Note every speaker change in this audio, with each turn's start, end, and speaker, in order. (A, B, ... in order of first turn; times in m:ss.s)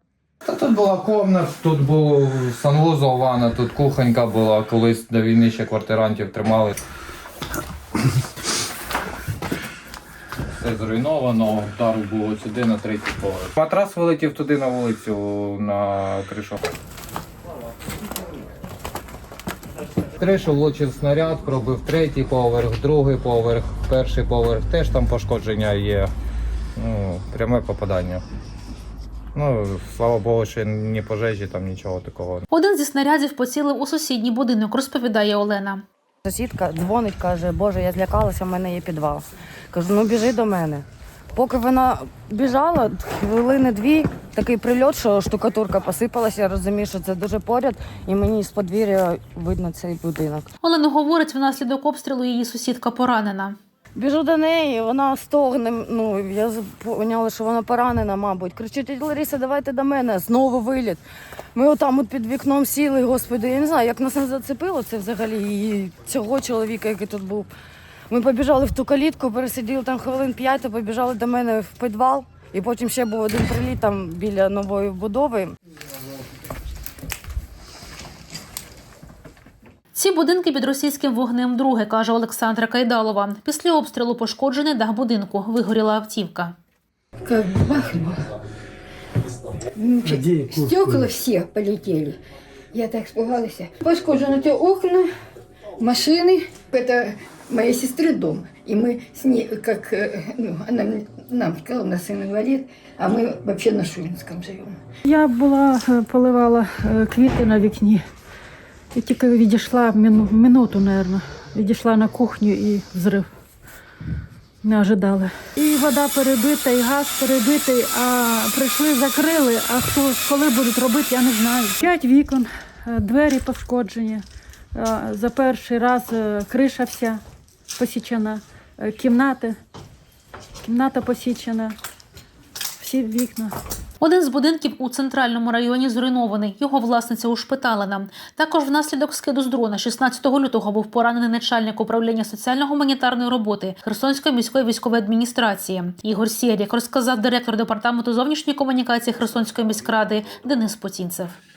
0:00.4-0:06.7 A
0:10.6-0:16.6 A
0:20.2-0:26.1 A
0:26.8-0:28.2 A
0:29.4-0:32.5 A
0:32.5-0:35.8 B
0:36.2-0:50.5 C
0:50.6-0:53.6 B
0:54.0-1:01.0 C
1:01.5-1:07.5 C
1:08.1-1:15.6 C
1:19.9-1:26.6 B
1:27.3-1:28.2 D
1:29.8-1:32.2 D
1:32.8-1:35.0 D
1:35.8-1:44.7 D
1:45.0-1:48.0 E
1:48.9-1:53.3 E
1:54.6-2:04.2 E
2:04.8-2:07.2 E
2:07.8-2:09.6 E
2:10.6-2:11.8 E
2:12.8-2:13.5 E
2:14.0-2:31.4 B